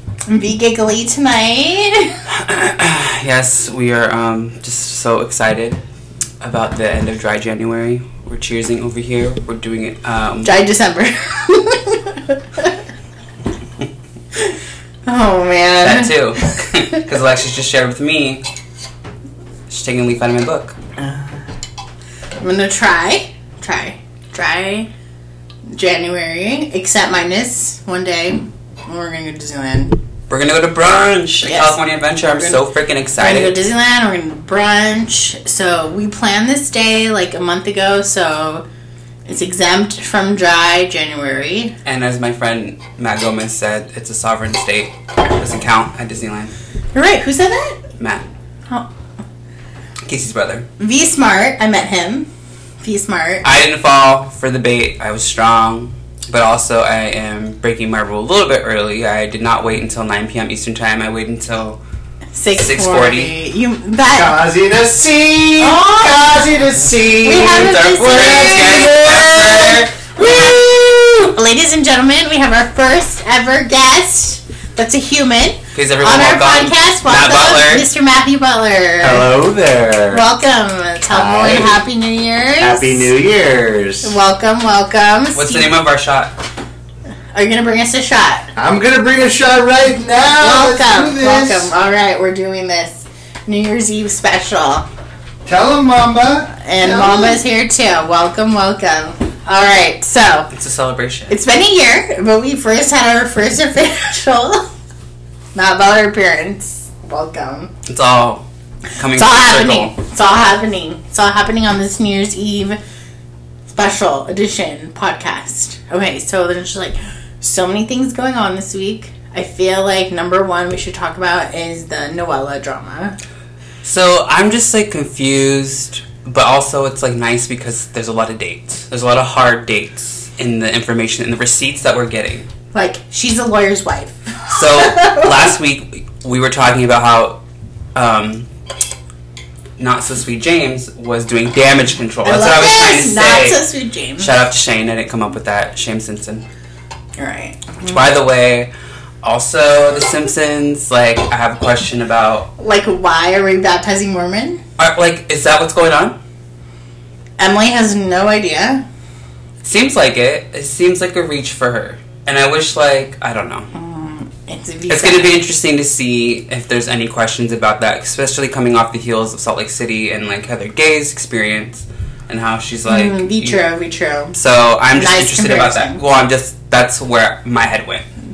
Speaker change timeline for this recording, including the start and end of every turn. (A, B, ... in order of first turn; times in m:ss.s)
0:00.3-0:02.2 A
0:02.3-0:05.8 B
0:06.4-0:10.6 B
0:10.4-0:12.7 A
0:15.0-0:16.5 A
0:15.8-0:18.4 B
0:19.7-0:20.8 B
0:21.0-0:21.4 A
0:22.4-0:24.9 A
0:25.7-0:30.0 A
0:30.3-0:33.6 B
0:31.4-0:31.8 A
0:33.2-0:38.6 A
0:39.2-0:41.7 A
0:41.8-0:46.5 B
0:46.9-0:47.8 A
0:48.0-0:48.3 B
0:50.0-0:50.7 B
0:50.8-0:52.3 A
0:52.8-0:53.5 A
0:53.4-1:01.8 B
1:02.3-1:04.3 A
1:02.6-1:03.3 B
1:04.1-1:08.8 C
1:05.6-1:06.4 A
1:07.2-1:19.3 A
1:07.3-1:10.1 B
1:15.7-1:17.9 B
1:19.0-1:20.2 C
1:20.1-1:23.1 A
1:21.1-1:21.8 C
1:22.6-1:24.1 C
1:24.0-1:25.7 A
1:25.3-1:26.3 B
1:27.3-1:28.5 A
1:28.6-1:31.7 C
1:30.4-1:34.8 A
1:35.4-1:37.4 C
1:36.5-1:40.5 A
1:40.5-1:41.4 B
1:41.3-1:44.7 A
1:45.5-1:47.7 A
1:47.9-1:49.9 B
1:49.1-1:52.8 A
1:53.7-2:03.2 A
2:03.8-2:12.5 B
2:12.7-2:15.3 A
2:14.5-2:17.4 B
2:17.9-2:18.5 B
2:19.8-2:23.6 B
2:22.2-2:24.3 A
2:24.2-2:26.4 B
2:27.2-2:27.9 A
2:27.8-2:28.7 B
2:29.2-2:32.5 B
2:32.6-2:34.6 A
2:34.8-2:36.2 B
2:37.4-2:38.8 A
2:39.6-2:43.7 B
2:43.7-2:45.4 A
2:44.9-2:53.6 B
2:52.9-2:54.4 A
2:54.3-2:58.1 B
2:54.9-2:56.0 A